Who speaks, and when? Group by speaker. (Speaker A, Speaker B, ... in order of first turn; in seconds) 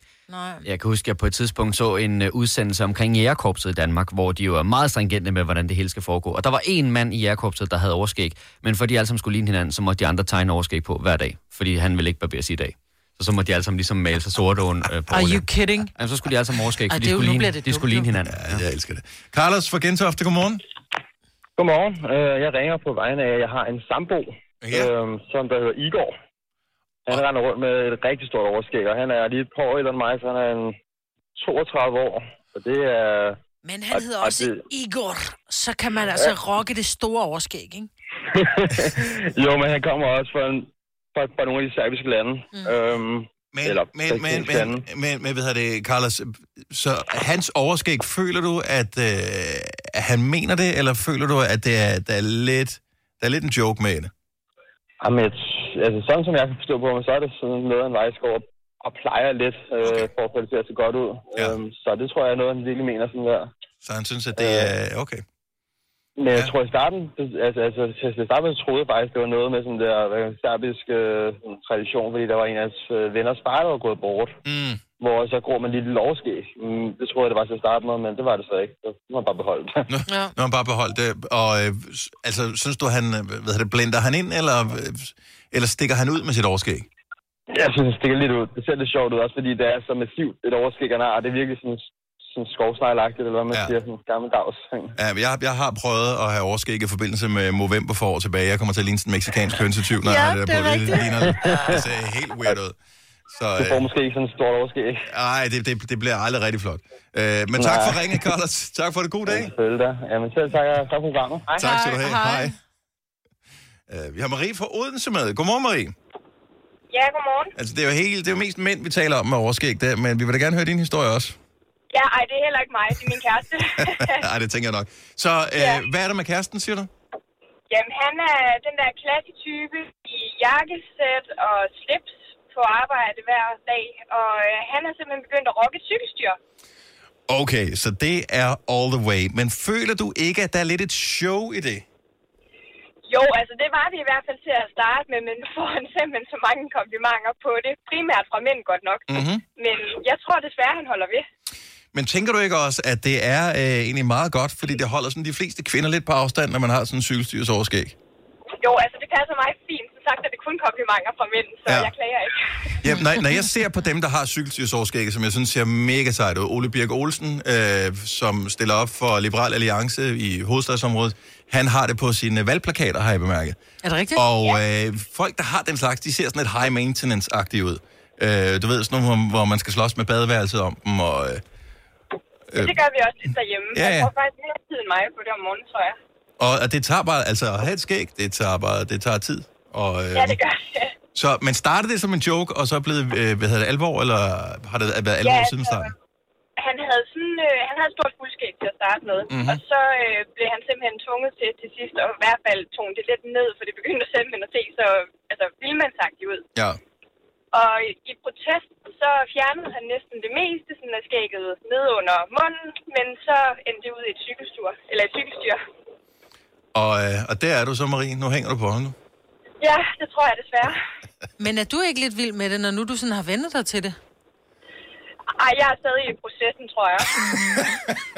Speaker A: 0.3-0.6, 15.1-15.9, 16.9-18.1, 33.6-37.9, 80.1-80.3, 100.0-101.6, 111.6-112.5, 173.8-174.3, 221.4-223.9, 227.2-227.7
Speaker B: 0.6-18.6
Speaker C: 18.2-20.6, 24.6-24.9, 43.5-54.1, 59.8-60.1, 63.8-65.2, 74.4-74.8, 79.9-86.9, 95.0-102.8, 103.3-103.8, 105.0-109.5, 111.5-112.5, 113.9-115.9, 117.5-121.4, 123.8-126.9, 137.3-141.8, 149.1-149.4, 151.9-157.9, 162.8-173.6, 174.1-181.4, 182.5-182.8, 183.7-184.1, 186.4-190.4, 191.1-195.9, 199.3-199.6, 216.7-218.9
Speaker D: 21.6-26.1, 27.1-30.8, 31.4-33.4, 33.9-34.6, 38.3-44.8, 55.0-63.5, 64.3-64.7, 66.2-74.3, 75.0-79.9, 87.5-94.9, 101.3-101.8, 103.6-105.1, 107.5-108.2, 109.2-111.6
Speaker E: 116.9-117.5, 121.9-124.2, 125.6-125.8, 127.7-136.4, 143.1-151.2, 158.6-162.7, 182.6-186.0, 190.1-190.9, 195.2-195.9, 196.6-206.4, 207.5-215.6, 219.6-220.8, 225.4-227.2